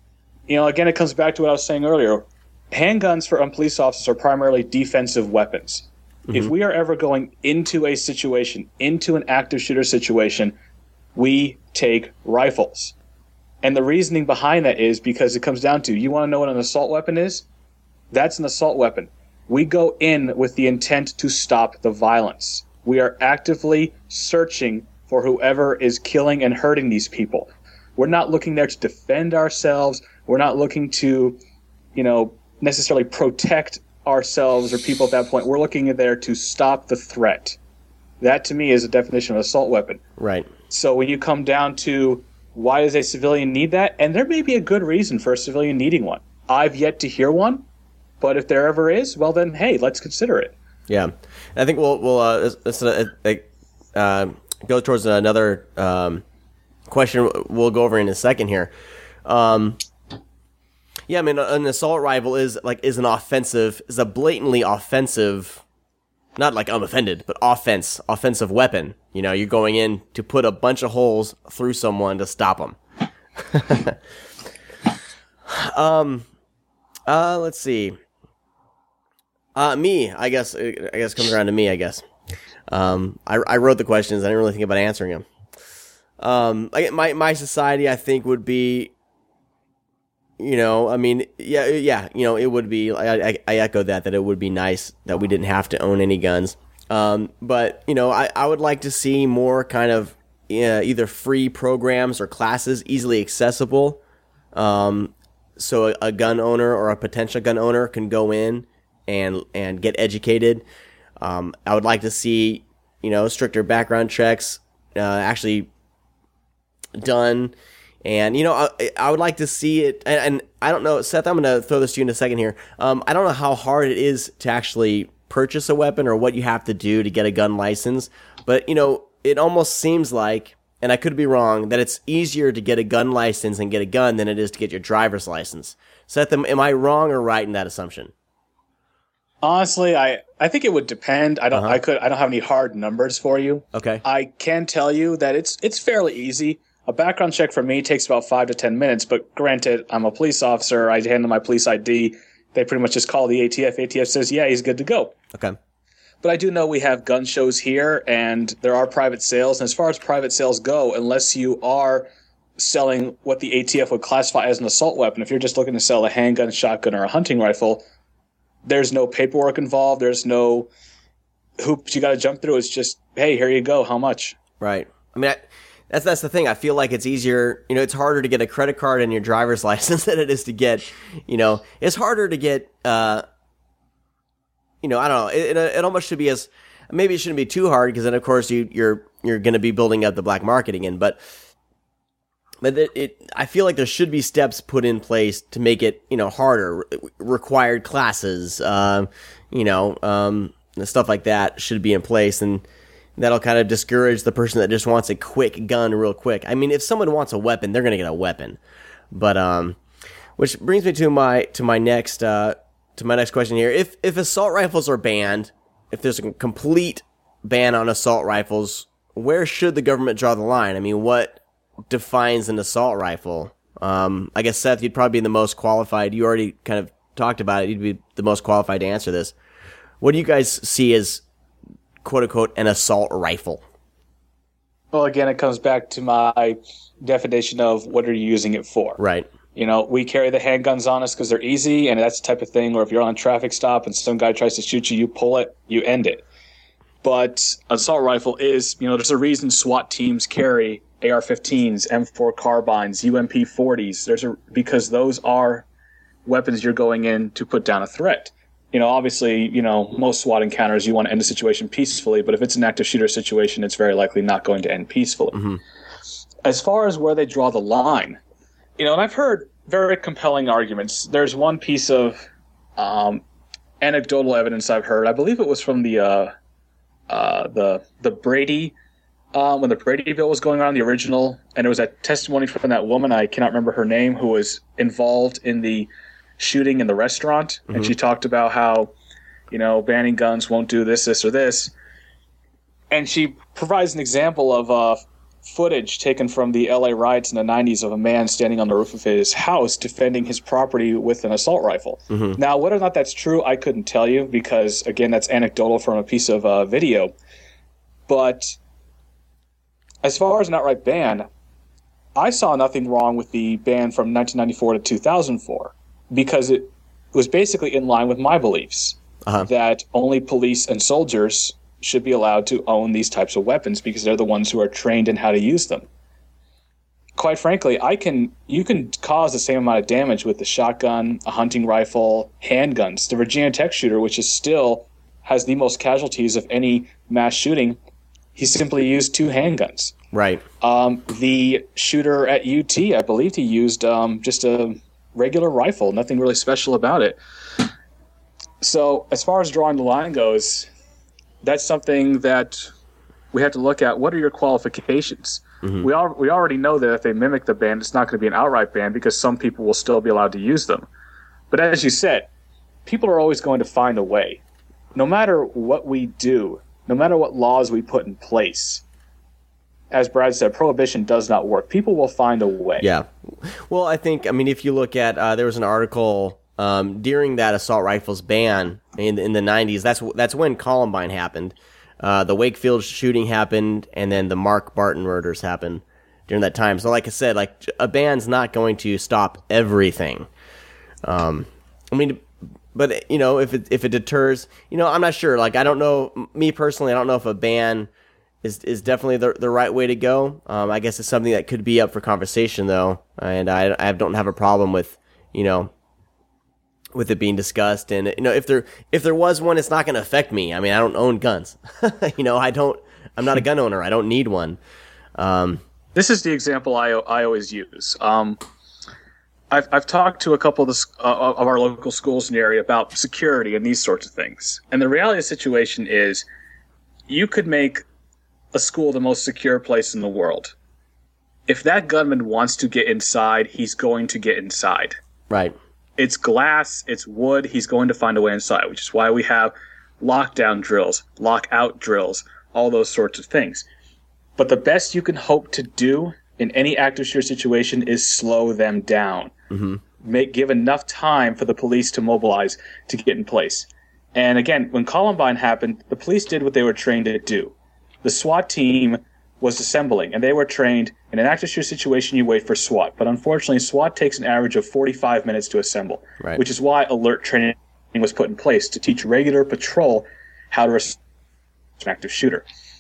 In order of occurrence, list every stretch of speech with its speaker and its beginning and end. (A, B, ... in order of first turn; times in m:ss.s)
0:00.5-0:10.6 A
0:11.2-0:12.9 A
0:13.6-0:17.4 A
0:18.1-0:31.4 A
0:32.0-0:37.6 A
0:38.2-0:40.0 A
0:40.2-0:40.5 B
0:40.7-0:47.6 A
0:48.2-0:50.5 A
0:50.9-0:56.2 B
0:56.9-0:58.7 B
0:59.2-0:59.8 B
1:01.1-1:05.6 B
1:06.4-1:12.8 B
1:13.4-1:14.0 B
1:15.5-1:16.3 B
1:17.1-1:18.0 B
1:19.6-1:22.0 B
1:22.7-1:25.3 B
1:26.2-1:28.9 B
1:30.4-1:44.0 B
1:44.5-1:50.6 B
1:51.2-1:55.7 B
1:57.0-2:18.1 B
2:19.4-2:35.2 A
2:21.5-2:21.8 B
2:23.7-2:24.0 B
2:36.2-2:47.8 A
2:48.6-2:50.7 A
2:51.6-2:54.4 A
2:54.6-3:03.3 B
3:04.8-3:11.2 B
3:12.6-3:22.6 B
3:23.2-3:28.6 B
3:29.1-3:29.8 B
3:30.4-3:49.3 B
3:50.0-3:51.2 B
3:52.0-3:53.6 B
3:54.9-3:59.0 A
3:59.0-3:59.3 B
3:59.6-4:06.2 A
4:07.0-4:15.7 A
4:16.3-4:25.4 A
4:25.3-4:25.6 B
4:26.4-4:28.2 A
4:28.8-4:32.2 A
4:32.8-4:33.2 A
4:33.8-4:36.3 A
4:37.1-4:38.8 A
4:39.3-4:48.9 A
4:49.5-4:51.7 A
4:52.9-5:07.1 A
5:02.1-5:02.4 B
5:08.1-5:08.6 A
5:10.0-5:11.3 A
5:12.2-5:25.9 A
5:27.2-5:37.8 A
5:38.4-5:39.9 A
5:40.1-5:40.4 B
5:40.6-5:47.2 A
5:48.6-5:50.7 A
5:51.4-5:52.7 A
5:53.3-6:00.9 A
6:01.5-6:02.3 A
6:02.9-6:04.4 A
6:05.0-6:08.8 A
6:09.9-6:12.9 A
6:12.8-6:30.3 B
6:31.0-6:37.9 B
6:38.4-6:45.7 B
6:46.9-6:54.6 B
6:55.2-6:55.6 B
6:55.9-6:58.4 A
6:59.5-7:06.3 A
7:07.1-7:07.8 A
7:08.5-7:10.5 A
7:11.5-7:15.0 A
7:15.3-7:15.6 B
7:16.0-7:23.7 A
7:24.4-7:29.3 A
7:29.5-7:29.8 B
7:30.0-7:51.0 A
7:51.8-7:52.4 A